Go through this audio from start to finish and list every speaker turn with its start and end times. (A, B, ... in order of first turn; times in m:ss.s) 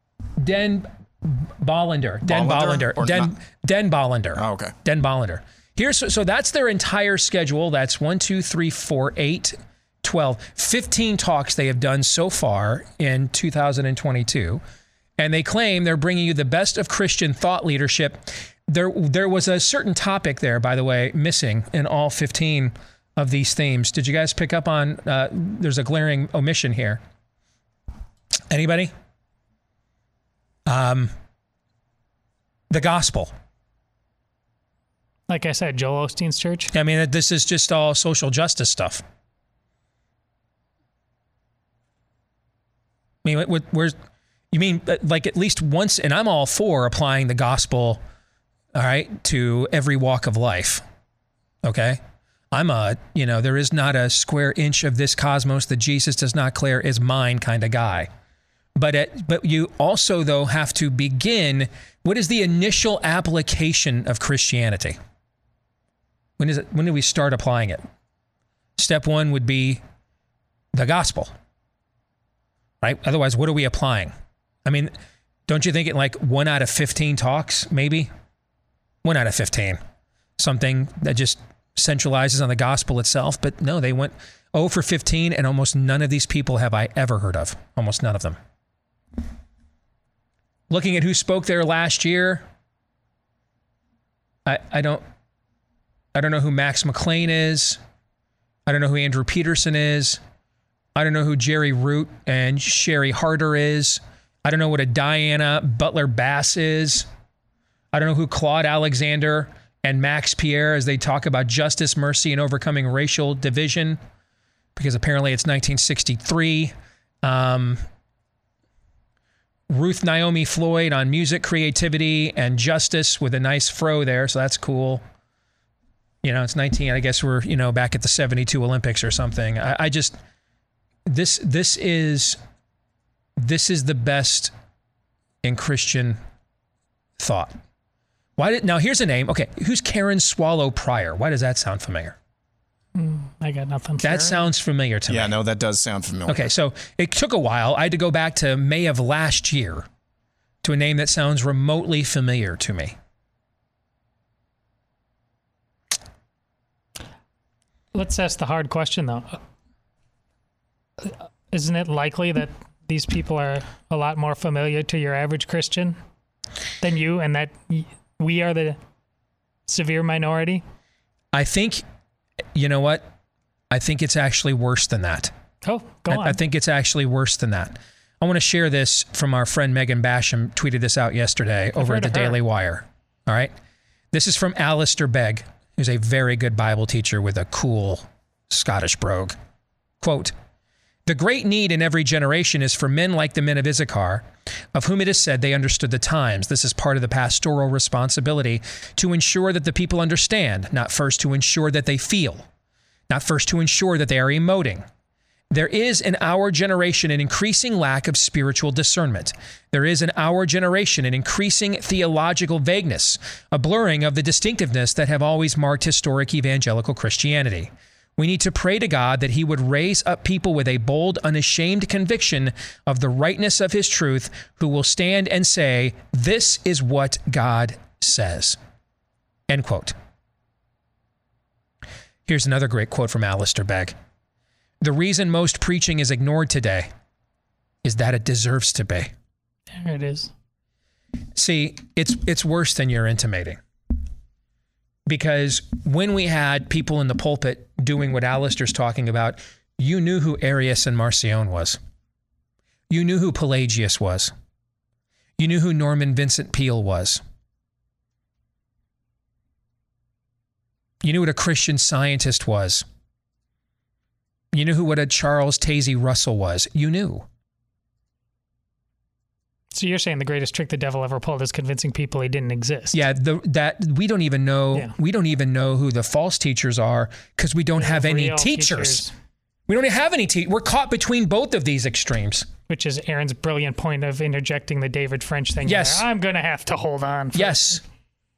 0:00.4-0:14.6 A
0:02.2-0:03.3 B
0:04.4-0:04.7 B
0:15.2-0:27.0 A
0:28.5-0:28.9 A
0:30.7-0:31.1 A
0:32.7-0:33.3 A
0:35.3-0:36.7 C
0:36.7-0:39.0 A
0:43.2-0:44.0 A
0:44.5-0:48.0 A
0:48.7-0:50.8 A
0:51.6-0:52.0 A
0:52.5-0:58.1 A
0:58.8-1:05.0 A
1:06.4-1:07.8 A
1:08.8-1:09.8 A
1:10.7-1:11.3 A
1:12.8-1:14.1 A
1:14.6-1:14.9 A
1:15.5-1:18.1 A
1:19.0-1:19.8 A
1:20.4-1:28.4 A
1:30.7-1:32.4 A
1:34.4-1:35.0 A
1:36.1-1:37.8 A
1:38.6-1:40.2 A
1:41.0-1:47.1 A
1:47.9-1:54.0 A
1:54.8-1:57.8 A
1:59.7-2:05.0 A
2:06.2-2:10.2 A
2:11.1-2:12.4 A
2:13.4-2:14.5 A
2:15.4-2:16.2 A
2:17.2-2:17.5 A
2:18.4-2:22.2 A
2:22.9-2:24.4 C
2:24.0-2:25.3 A
2:25.1-2:26.5 B
2:26.3-2:29.9 A
2:30.6-2:32.9 A
2:37.9-2:39.4 C
2:41.0-2:46.0 C
2:46.8-2:48.8 C
2:49.7-2:50.6 C
2:51.3-2:51.8 A
2:52.5-2:53.1 A
2:53.7-2:55.3 A
2:55.6-2:56.4 C
2:56.1-3:03.5 A
3:01.8-3:02.4 C
3:04.1-3:09.4 A
3:10.0-3:10.3 A
3:11.1-3:22.4 A
3:23.1-3:24.8 A
3:25.5-3:48.6 A
3:49.5-3:49.9 A
3:52.3-3:53.9 A
3:54.8-3:56.9 A
3:57.8-3:59.1 A
3:59.7-4:00.3 C
4:01.4-4:03.6 A
4:05.1-4:11.8 A
4:12.9-4:14.3 A
4:15.4-4:17.2 A
4:21.0-4:22.8 A
4:24.5-4:27.2 A
4:29.7-4:33.0 C
4:32.9-4:39.0 A
4:37.8-4:39.1 C
4:39.7-4:42.5 A
4:42.7-4:47.8 C
4:45.6-4:46.0 A
4:47.3-4:47.8 A